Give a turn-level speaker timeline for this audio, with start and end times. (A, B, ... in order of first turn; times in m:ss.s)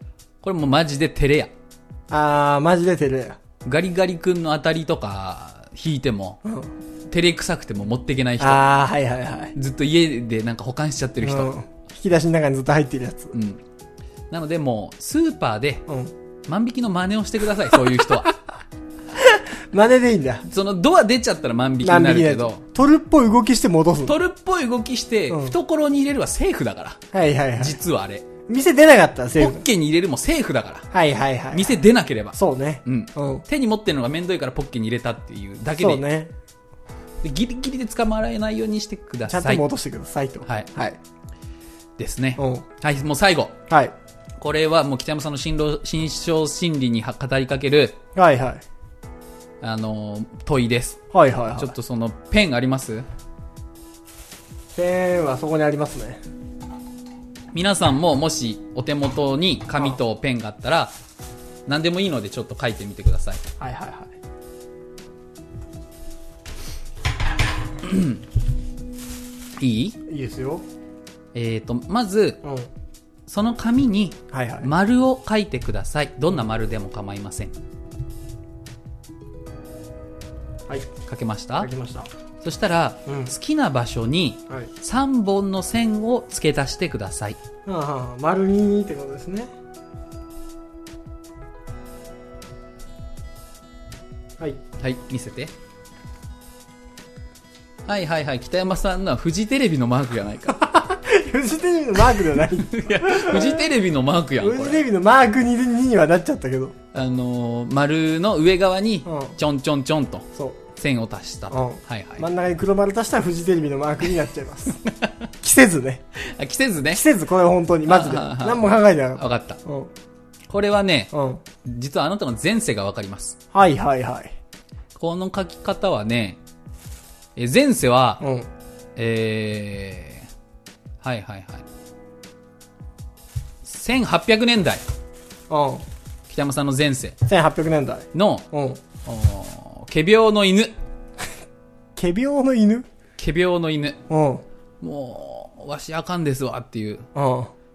0:00.4-0:01.5 A
0:02.1-0:03.4 B
0:03.6-0:06.4 A
0:06.4-0:06.7 B
0:07.1-0:08.6 A
0:08.4-0:09.5 B
0:09.5-0:11.5 A
0:11.2-0:13.3 B
0:13.3-0:13.6 A
0:14.3-0:15.8 A
0:15.9-0:16.1 B
0:16.5-0:18.3 A
0:19.1-0:20.4 B
0:20.5-0:22.6 A
0:21.8-0:24.1 B
0:24.0-0:27.0 A
0:25.3-0:25.5 B
0:27.1-0:27.8 B
0:27.6-0:28.2 A
0:28.5-0:29.6 B
0:29.4-0:30.9 A
0:30.9-0:31.8 B
0:31.5-0:36.0 A
0:32.3-0:33.4 B
0:35.8-0:36.3 B
0:37.2-0:39.6 A
0:39.3-0:41.0 B
0:42.0-0:43.6 A
0:42.4-0:42.6 B
0:43.7-0:43.9 B
0:44.4-0:48.0 A
0:48.1-0:48.6 B
0:49.6-0:53.0 A
0:51.1-0:51.7 B
0:54.7-0:56.2 B
0:57.5-1:00.9 A
1:01.7-1:03.4 A
1:03.6-1:04.1 B
1:07.8-1:08.2 A
1:09.6-1:10.0 A
1:10.0-1:10.6 B
1:11.3-1:12.4 A
1:12.4-1:12.7 B
1:13.3-1:17.5 A
1:14.3-1:14.7 B
1:21.0-1:21.7 A
1:21.6-1:22.1 B
1:22.4-1:27.4 A
1:23.1-1:23.3 B
1:27.6-1:29.5 B
1:34.8-1:35.5 A
1:37.8-1:40.7 A
1:40.5-1:43.6 B
1:42.5-1:44.8 A
1:44.4-1:46.7 B
1:46.9-1:52.2 A
1:49.0-1:49.3 B
1:51.5-1:54.8 B
1:54.8-1:55.1 A
1:55.4-1:56.0 B
1:56.2-1:57.0 A
1:56.9-1:59.9 B
1:57.9-1:59.6 A
2:00.5-2:01.1 A
2:01.1-2:01.4 B
2:01.6-2:03.4 A
2:03.5-2:04.3 B
2:05.0-2:06.4 A
2:07.4-2:08.2 A
2:08.2-2:08.5 B
2:09.0-2:10.3 A
2:11.0-2:11.6 A
2:13.6-2:14.8 A
2:15.5-2:15.8 B
2:16.3-2:17.2 A
2:17.2-2:18.8 B
2:18.1-2:18.5 A
2:19.0-2:20.7 A
2:22.0-2:22.9 B
2:23.2-2:24.0 A
2:24.1-2:24.4 B
2:24.8-2:27.1 A
2:27.1-2:27.5 B